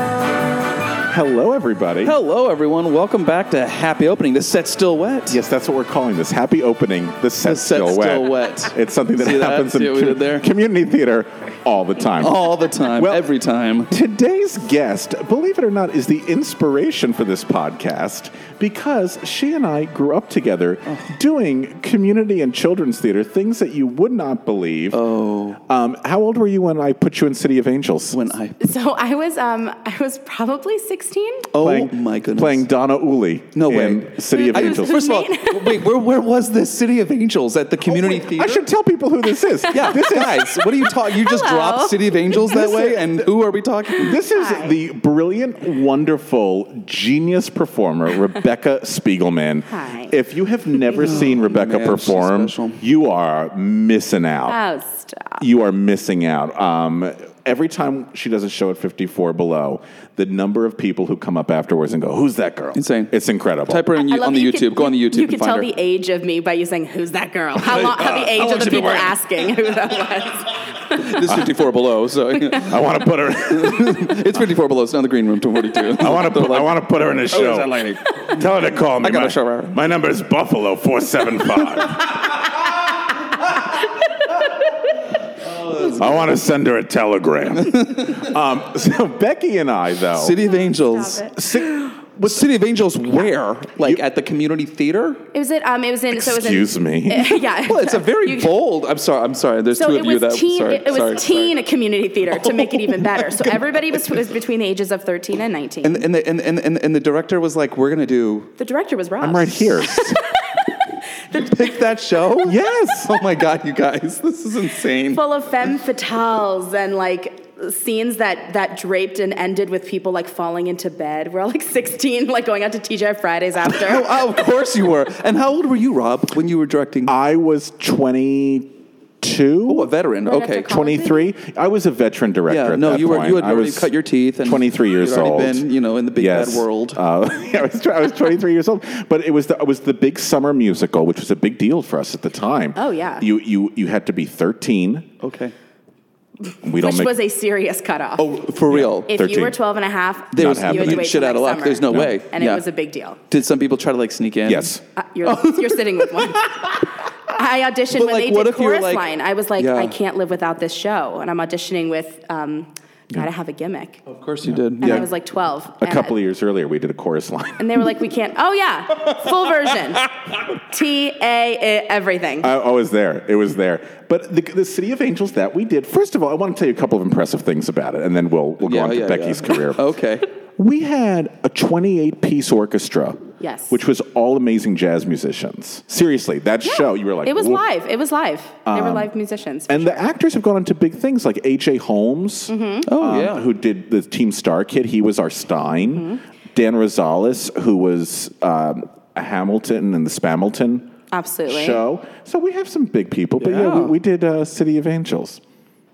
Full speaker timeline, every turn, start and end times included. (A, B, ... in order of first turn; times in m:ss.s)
0:01.1-0:02.2 A
0:02.0-0:05.4 B
0:05.3-0:13.3 A
0:07.4-0:10.5 B
0:12.2-0:14.0 B
0:13.9-0:25.1 A
0:24.9-0:25.6 B
0:25.6-0:28.3 A
0:28.1-0:28.6 B
0:28.6-0:31.5 C
0:31.5-0:32.7 B
0:31.6-0:35.2 A
0:33.5-0:38.7 B
0:34.3-0:35.8 C
0:37.8-0:40.6 A
0:39.7-0:44.2 B
0:41.2-0:42.0 C
0:42.4-0:43.3 A
0:44.0-0:54.6 A
0:44.3-0:44.7 C
0:49.7-0:50.1 C
0:50.9-0:52.8 B
0:54.5-0:55.4 C
0:55.4-1:03.9 A
1:02.7-1:03.2 B
1:03.7-1:05.7 B
1:04.0-1:11.0 C
1:07.6-1:09.2 B
1:10.9-1:12.8 B
1:12.6-1:14.4 A
1:13.4-1:18.4 B
1:15.9-1:22.3 A
1:19.0-1:19.8 B
1:25.5-1:26.4 B
1:25.8-1:30.4 A
1:27.7-1:28.1 B
1:30.1-1:31.6 B
1:30.9-1:31.4 C
1:31.4-1:32.4 A
1:32.2-1:35.2 B
1:35.3-1:38.5 C
1:36.1-1:37.4 A
1:37.6-1:41.5 B
1:39.7-1:46.0 C
1:42.3-1:44.0 B
1:45.8-1:48.5 B
1:48.6-1:50.1 C
1:49.2-1:50.2 A
1:51.3-1:55.2 B
1:52.4-1:53.2 A
1:55.1-2:04.1 C
2:03.7-2:07.1 B
2:07.0-2:09.9 A
2:09.7-2:10.7 B
2:10.2-2:11.3 C
2:10.6-2:13.9 A
2:12.5-2:17.0 B
2:14.4-2:25.1 A
2:22.7-2:23.3 C
2:25.2-2:25.5 B
2:26.6-2:27.2 A
2:26.8-2:28.3 C
2:28.2-2:29.1 B
2:28.7-2:29.6 A
2:29.1-2:33.2 C
2:30.3-2:32.6 B
2:30.3-2:31.0 A
2:31.9-2:32.1 A
2:33.3-2:36.8 B
2:34.4-2:34.8 A
2:35.0-2:36.8 C
2:37.3-2:44.0 C
2:37.9-2:39.0 B
2:39.6-2:39.9 B
2:44.1-2:45.1 B
2:44.4-2:45.1 A
2:44.8-2:46.2 C
2:45.8-2:47.8 A
2:47.6-2:50.1 C
2:50.7-2:52.5 C
2:52.4-2:59.9 A
2:58.6-3:00.2 B
3:00.6-3:07.6 A
3:03.4-3:03.8 C
3:06.6-3:10.1 C
3:08.6-3:09.1 A
3:09.7-3:20.9 A
3:12.5-3:12.9 C
3:12.9-3:13.5 B
3:15.9-3:16.2 C
3:21.1-3:21.8 C
3:21.5-3:25.4 A
3:23.4-3:24.0 B